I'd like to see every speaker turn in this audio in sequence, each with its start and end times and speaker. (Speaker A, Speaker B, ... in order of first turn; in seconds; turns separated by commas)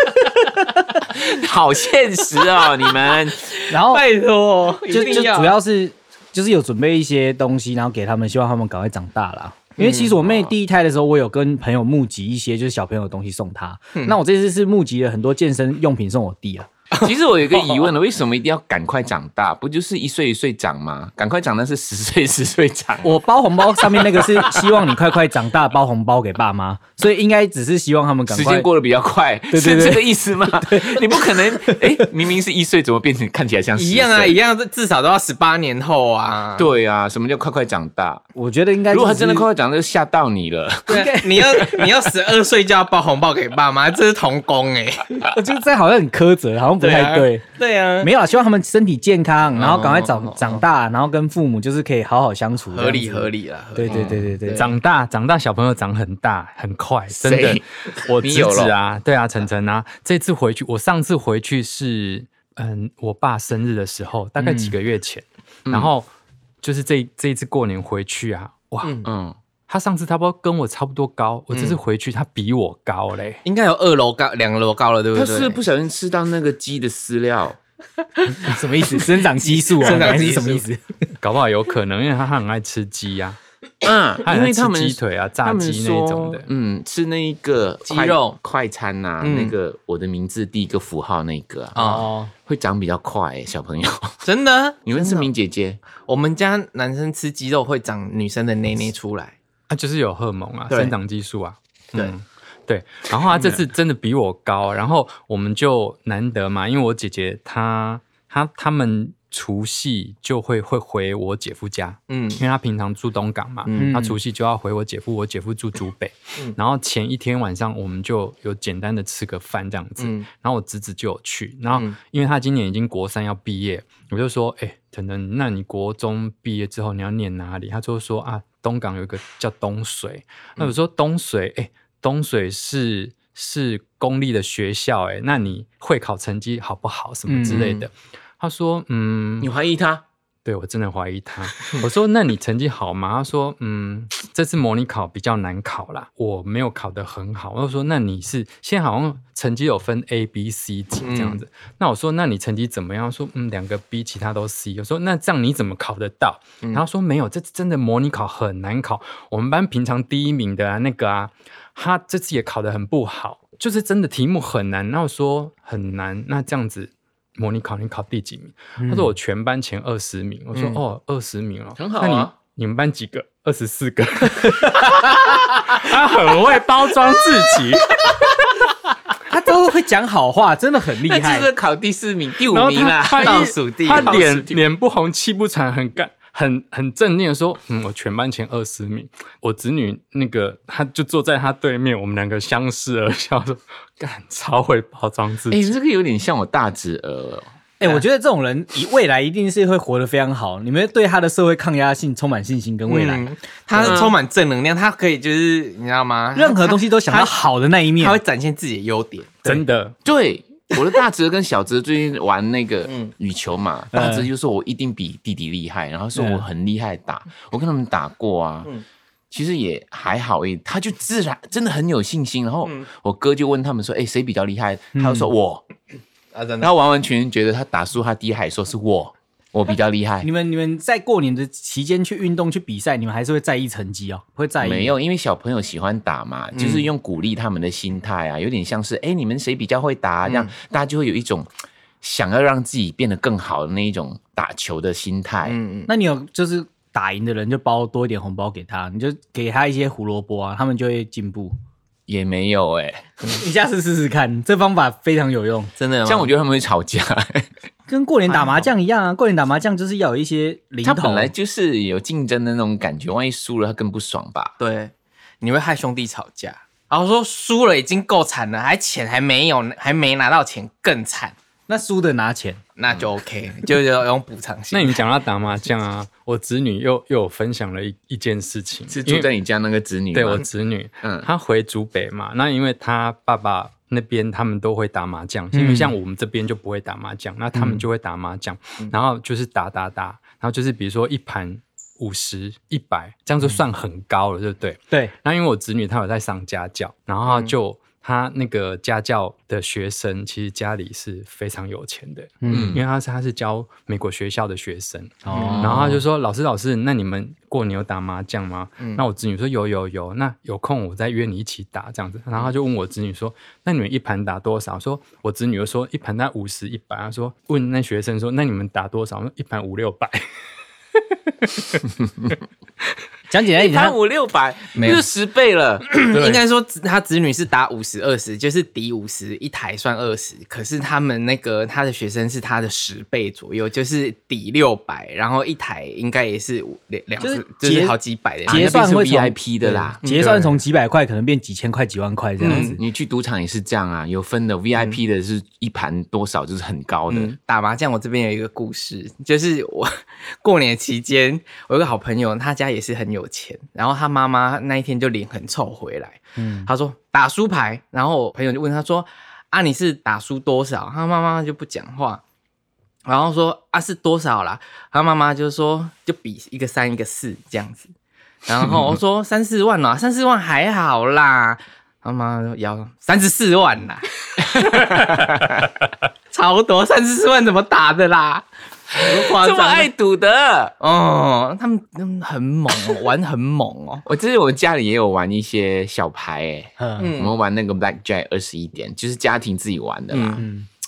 Speaker A: 1.0-3.5, Speaker B: 3.4-5.6, Speaker C: 3.7-4.0, Speaker A: 4.9-5.3, Speaker C: 4.9-16.7, Speaker B: 9.8-10.2, Speaker B: 16.9-17.9, Speaker A: 17.0-23.2, Speaker C: 23.0-28.7, Speaker A: 23.8-24.5, Speaker A: 28.3-34.4, Speaker C: 29.5-32.1, Speaker B: 33.8-36.7, Speaker A: 36.5-38.3, Speaker C: 38.3-39.5, Speaker A: 38.9-41.1, Speaker B: 40.9-45.2, Speaker C: 40.9-41.6, Speaker C: 45.2-47.5, Speaker B: 46.8-48.1, Speaker C: 48.0-54.6, Speaker B: 49.5-50.6, Speaker B: 52.7-54.7, Speaker A: 53.9-54.2, Speaker D: 54.5-66.1, Speaker A: 57.1-58.7, Speaker C: 64.4-64.8, Speaker D: 66.6-69.0, Speaker B: 68.8-69.1, Speaker A: 69.0-69.3, Speaker D: 69.7-73.4, Speaker B: 71.5-71.8, Speaker B: 73.4-75.6, Speaker A: 75.1-77.6, Speaker B: 78.2-80.6, Speaker C: 78.4-80.8, Speaker D: 81.2-83.4, Speaker A: 83.8-94.2, Speaker D: 84.2-86.5, Speaker B: 87.8-88.4, Speaker B: 89.2-89.5, Speaker B: 91.7-92.1, Speaker C: 91.8-92.3, Speaker B: 94.2-95.3, Speaker A: 94.8-95.8, Speaker B: 96.0-99.3, Speaker D: 99.7-139.5, Speaker B: 112.1-112.4, Speaker B: 113.7-114.0, Speaker C: 113.8-114.2, Speaker B: 120.0-120.3, Speaker C: 137.3-137.8, Speaker A: 139.4-140.0, Speaker D: 140.4-178.3, Speaker B: 151.0-151.4, Speaker C: 168.8-169.1, Speaker B: 170.5-170.8, Speaker A: 171.8-172.3, Speaker C: 179.3-181.5, Speaker A: 181.0-184.6, Speaker D: 182.5-195.7, Speaker B: 183.2-184.2, Speaker A: 195.5-197.4, Speaker C: 197.8-204.0, Speaker B: 202.9-207.3, Speaker A: 203.8-204.1, Speaker C: 206.3-208.2, Speaker B: 208.0-209.4, Speaker D: 209.4-209.9, Speaker A: 210.0-218.7, Speaker B: 212.9-213.1, Speaker C: 213.9-214.3, Speaker C: 216.1-216.4, Speaker A: 219.3-225.7, Speaker C: 224.9-225.3, Speaker B: 226.3-226.7, Speaker A: 226.6-230.3, Speaker C: 230.2-234.9, Speaker A: 234.6-241.5, Speaker B: 236.5-236.9, Speaker B: 240.2-240.5, Speaker A: 242.0-245.6, Speaker B: 245.4-245.9, Speaker C: 245.9-251.5, Speaker A: 252.1-253.3, Speaker C: 253.4-255.7, Speaker B: 255.8-256.3, Speaker A: 256.0-257.5, Speaker C: 257.9-261.3, Speaker B: 258.3-258.7, Speaker A: 260.8-264.5, Speaker B: 264.6-271.3, Speaker C: 271.7-272.6, Speaker B: 272.8-275.0, Speaker D: 274.7-279.3, Speaker A: 278.9-280.4, Speaker D: 280.1-320.2, Speaker A: 281.0-281.3, Speaker C: 285.5-285.9, Speaker C: 287.5-287.8, Speaker B: 297.2-297.5, Speaker C: 302.4-302.8, Speaker A: 302.5-302.8, Speaker C: 305.2-306.0, Speaker B: 305.3-305.7, Speaker D: 321.4-321.8, Speaker C: 323.3-323.9, Speaker A: 323.6-325.9, Speaker B: 324.7-325.0, Speaker B: 325.9-338.9, Speaker C: 337.2-342.8, Speaker A: 338.5-340.0, Speaker B: 340.0-340.4, Speaker D: 340.2-340.4, Speaker B: 342.4-342.8, Speaker A: 342.4-347.4, Speaker B: 347.1-362.2, Speaker C: 356.4-356.7, Speaker B: 363.0-367.9, Speaker B: 368.4-375.2, Speaker A: 374.6-375.6, Speaker B: 376.3-379.9, Speaker A: 378.9-380.7, Speaker B: 380.8-384.0, Speaker A: 384.1-390.5, Speaker C: 386.8-387.1, Speaker B: 387.0-387.3, Speaker B: 390.1-390.4